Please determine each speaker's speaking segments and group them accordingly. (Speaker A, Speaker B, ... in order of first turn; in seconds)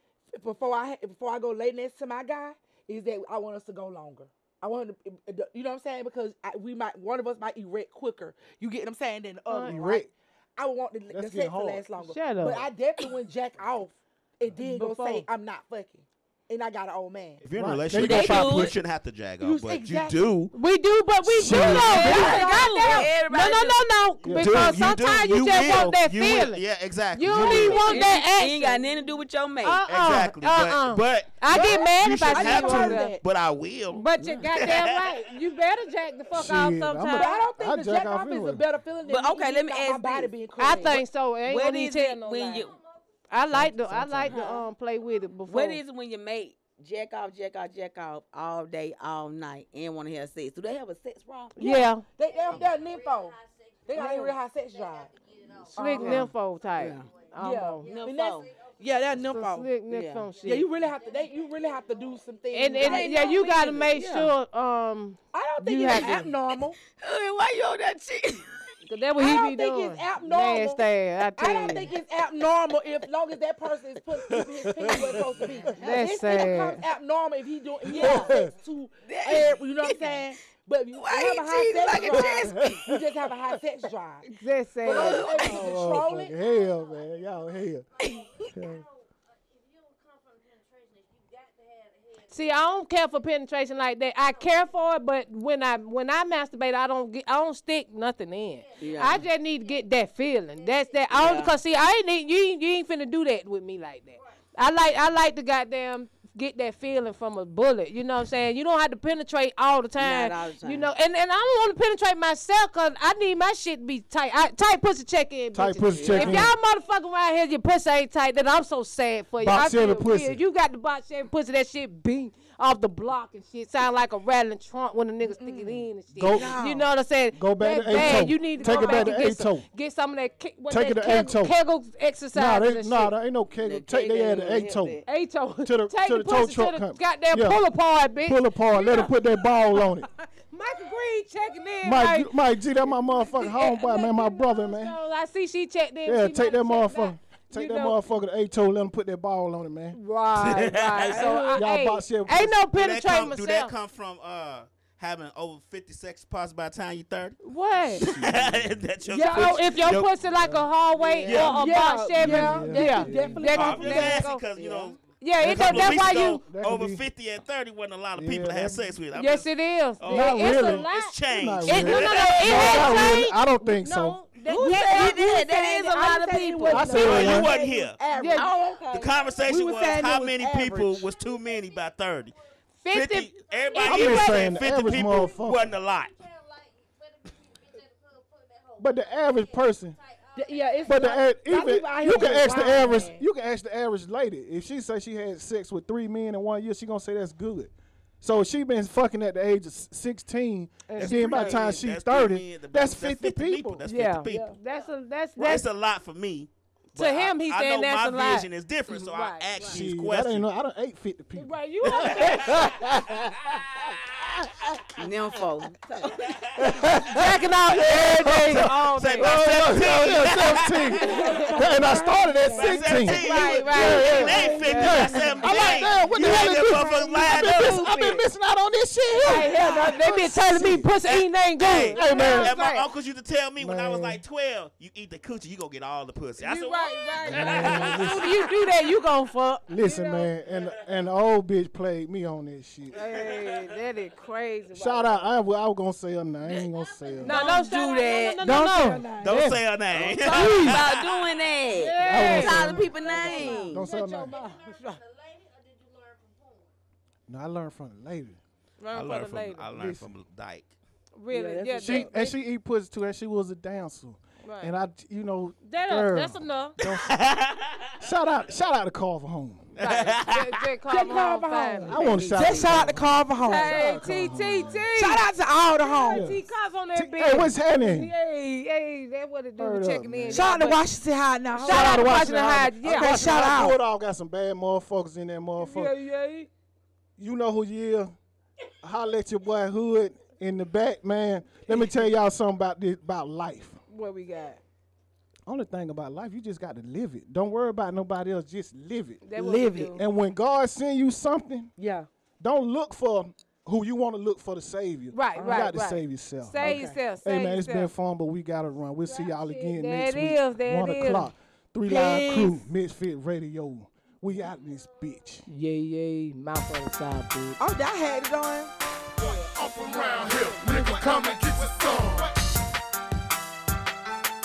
Speaker A: 0.3-17.4, 19.4-20.3, 22.0-23.1, 31.5-33.2, 37.1-41.0, 51.6-53.3, 53.9-55.1, 55.7-56.3, 57.4-59.7, 60.4-64.3, 65.3-66.8, 69.2-70.8, 71.4-84.3, 84.8-86.3, 125.2-126.7, 128.6-129.2, 151.0-151.6, 159.1-159.9, 160.9-164.3, 174.6-178.7, 179.4-181.1, 190.3-193.2, 204.3-204.5, 220.9-225.8, 248.4-249.5, 261.3-262.1, 270.9-274.0, 274.9-276.3, 280.3-282.2, 282.9-283.8, 291.7-292.0, 299.4-300.0, 301.8-302.1, 305.3-305.7, 306.6-307.0, 311.8-312.6, 317.6-318.7
Speaker B: 9.5-9.8, 12.0-12.7, 14.6-15.2, 20.5-26.6, 27.1-28.9, 29.6-33.1, 33.9-37.4, 40.6-42.6, 43.3-45.8, 51.6-52.0, 53.9-54.4, 55.7-57.9, 59.1-60.7, 62.5-66.3, 68.8-71.9, 75.8-76.8, 84.2-85.3, 92.3-133.1, 135.1-139.8, 140.5-142.3, 142.9-148.0, 149.9-153.7, 157.4-158.1, 159.2-164.4, 165.2-166.4, 169.1-175.2, 178.1-178.5, 182.8-184.6, 200.9-201.6, 203.8-205.6, 206.9-209.8, 211.3-212.8, 217.1-220.0, 221.0-221.7, 223.1-227.1, 229.2-232.8, 236.4-240.3, 242.9-245.1, 247.2-249.1, 250.2-250.8, 251.7-255.0, 258.8-259.7, 261.1-262.4, 264.4-264.7, 265.6-266.8, 269.8-272.3, 273.4-275.2, 275.8-280.8, 281.6-283.2, 285.6-286.5, 293.9-294.6, 299.2-300.0, 305.1-307.9, 309.1-311.3, 315.5-317.6
Speaker C: 9.7-10.0, 11.1-11.8, 17.5-18.7, 21.2-22.5, 24.2-24.8, 27.2-27.9, 36.3-38.6, 43.5-44.4, 74.3-75.7, 77.9-78.5, 82.5-83.0, 85.3-87.8, 88.5-88.8, 115.5-116.5, 119.4-120.4, 126.1-126.6, 127.3-129.7, 130.7-131.5, 132.3-135.0, 135.6-137.6, 138.2-140.1, 141.8-145.0, 146.1-150.0, 151.6-152.6, 157.9-158.6, 160.3-160.7, 162.1-163.4, 165.4-167.0, 168.1-168.8, 170.1-174.2, 176.7-177.5, 183.8-185.7, 188.8-190.0, 190.9-203.8, 209.6-213.5, 216.6-230.9, 231.9-232.5, 233.6-234.2, 237.2-238.3, 239.7-243.0, 244.7-247.4, 249.2-250.5, 252.0-253.0, 253.6-254.3, 257.3-258.4, 259.7-260.1, 261.8-267.1, 268.0-269.7, 271.9-274.8, 276.1-278.1, 279.6-280.6, 281.6-285.9, 287.2-288.1, 288.8-293.8, 295.4-299.2, 299.7-301.7, 302.4-315.4
Speaker D: 17.4-20.5, 24.2-28.0, 29.8-35.2, 150.3-151.3, 152.7-157.4, 157.9-160.2, 161.2-161.7, 163.4-173.2, 176.9-178.0, 178.9-182.3, 182.9-186.1, 200.9-204.6, 205.4-210.5, 211.8-214.3, 216.1-221.2, 222.5-227.9, 231.0-238.8, 240.4-241.1, 242.9-243.8, 249.2-251.4, 258.9-260.7, 266.8-268.1, 269.8-270.7
Speaker E: 17.9-18.8, 21.5-23.8, 27.7-29.8, 34.1-34.5, 39.0-40.3, 41.4-42.8, 44.3-44.6, 45.5-51.6, 55.9-57.1, 57.9-58.5, 59.9-60.3, 62.8-63.9, 66.9-68.6, 74.2-75.7, 77.9-78.3, 79.0-80.2, 81.0-83.6, 84.9-85.7, 88.0-88.5, 98.8-99.2, 101.1-101.6, 110.0-110.9, 115.9-116.5, 126.2-126.8, 133.5-135.0, 164.5-165.0, 174.5-177.2, 178.3-179.1, 214.9-216.3, 223.1-225.8, 226.9-228.2, 246.4-248.8, 250.2-253.8, 272.0-272.9
Speaker F: 35.3-36.7, 42.5-43.3, 52.2-63.3, 85.7-93.3, 94.1-95.0, 98.5-101.6, 104.2-104.4, 178.5-179.9, 181.1-182.6, 183.3-191.3, 246.5-248.3, 252.2-256.7, 314.3-315.1
Speaker G: 319.2-322.3